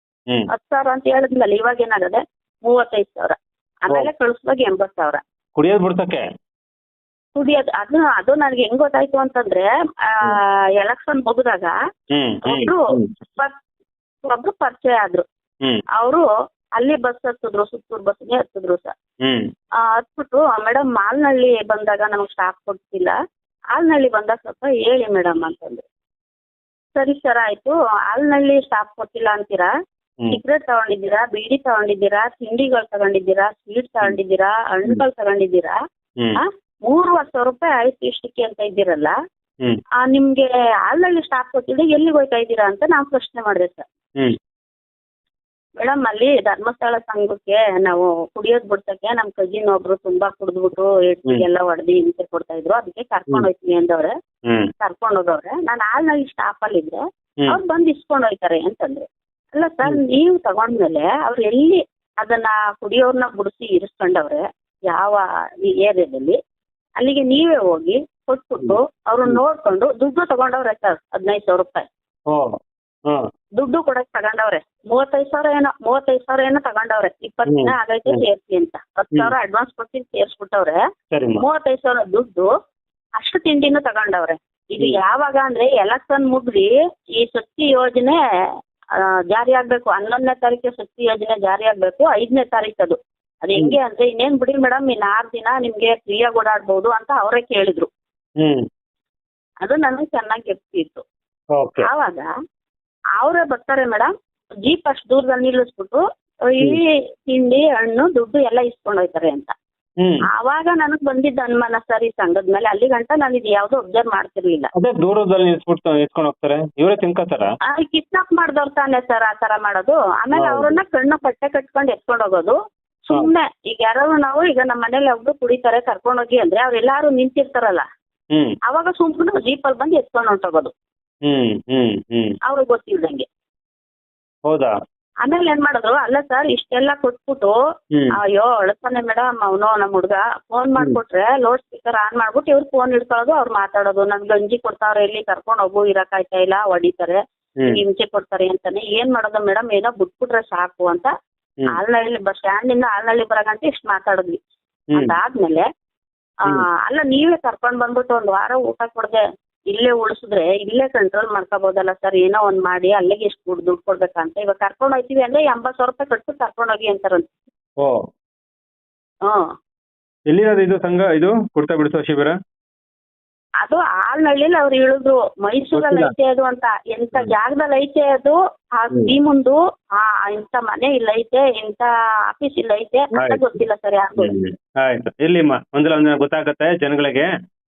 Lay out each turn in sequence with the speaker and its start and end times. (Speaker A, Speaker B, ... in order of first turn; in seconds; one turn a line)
Speaker A: 0.5-5.2
Speaker B: 5.5-6.2
Speaker A: 7.3-11.7
Speaker B: 12.1-13.1
Speaker A: 12.4-13.5
Speaker A: 14.2-15.2
Speaker A: 16.0-16.3
Speaker A: 16.8-18.9
Speaker A: 19.9-23.1
Speaker A: 23.7-25.8
Speaker A: 26.9-29.7
Speaker A: 30.3-35.8
Speaker A: 36.4-39.1
Speaker A: 40.0-43.8
Speaker A: 45.8-54.1
Speaker A: 54.8-66.3
Speaker A: 67.0-71.8
Speaker B: 68.6-69.4
Speaker A: 73.6-80.8
Speaker B: 77.5-78.2
Speaker B: 81.1-81.4
Speaker A: 81.4-82.5
Speaker A: 83.2-88.2
Speaker A: 89.0-97.9
Speaker A: 99.6-101.0
Speaker B: 101.5-101.9
Speaker A: 101.8-102.3
Speaker A: 103.2-104.1
Speaker A: 104.6-109.5
Speaker A: 110.3-114.7
Speaker B: 114.8-117.5
Speaker A: 117.7-127.8
Speaker B: 120.3-120.8
Speaker A: 128.7-130.7
Speaker B: 131.2-132.3
Speaker A: 132.4-133.2
Speaker B: 134.5-134.7
Speaker A: 135.2-137.6
Speaker A: 138.2-151.1
Speaker A: 151.7-154.4
Speaker A: 154.9-155.6
Speaker A: 156.4-159.2
Speaker A: 159.7-167.3
Speaker B: 170.3-172.3
Speaker A: 173.6-184.3
Speaker B: 175.8-176.1
Speaker B: 183.2-183.4
Speaker B: 184.2-187.3